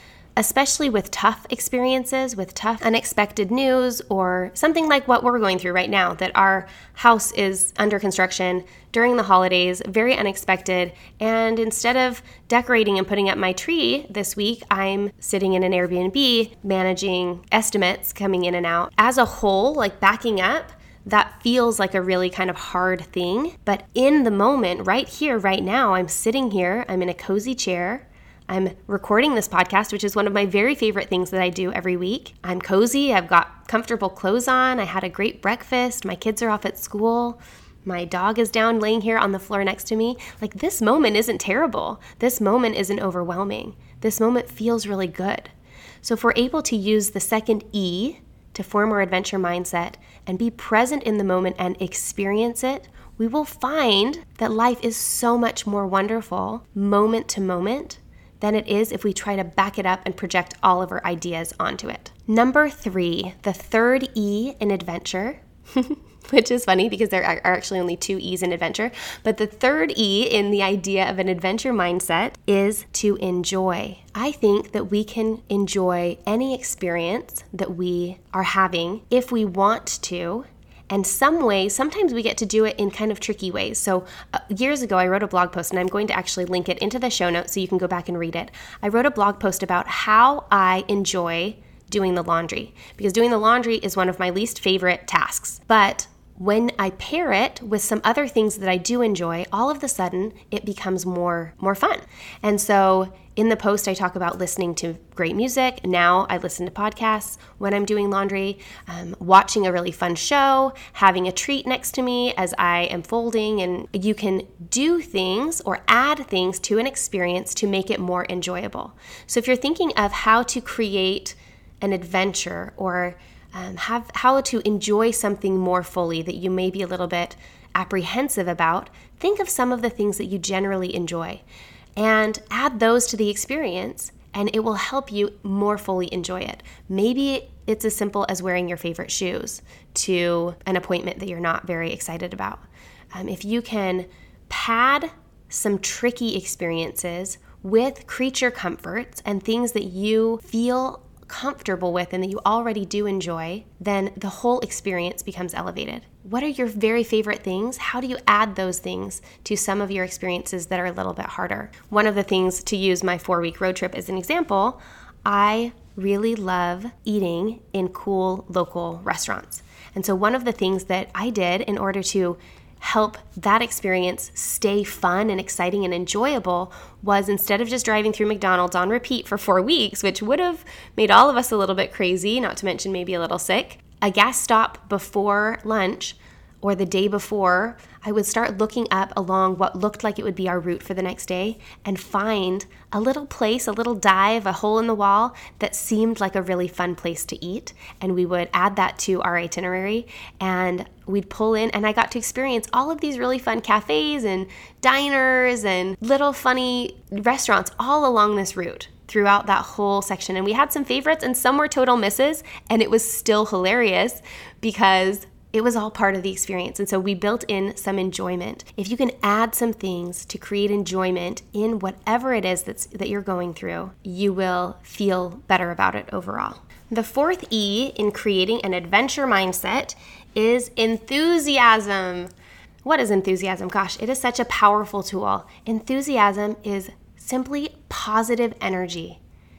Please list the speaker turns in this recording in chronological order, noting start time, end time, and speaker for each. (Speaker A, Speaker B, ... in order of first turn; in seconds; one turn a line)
Speaker A: 0.4-45.5
Speaker A: 46.0-131.4
Speaker A: 132.0-232.3
Speaker A: 232.8-239.2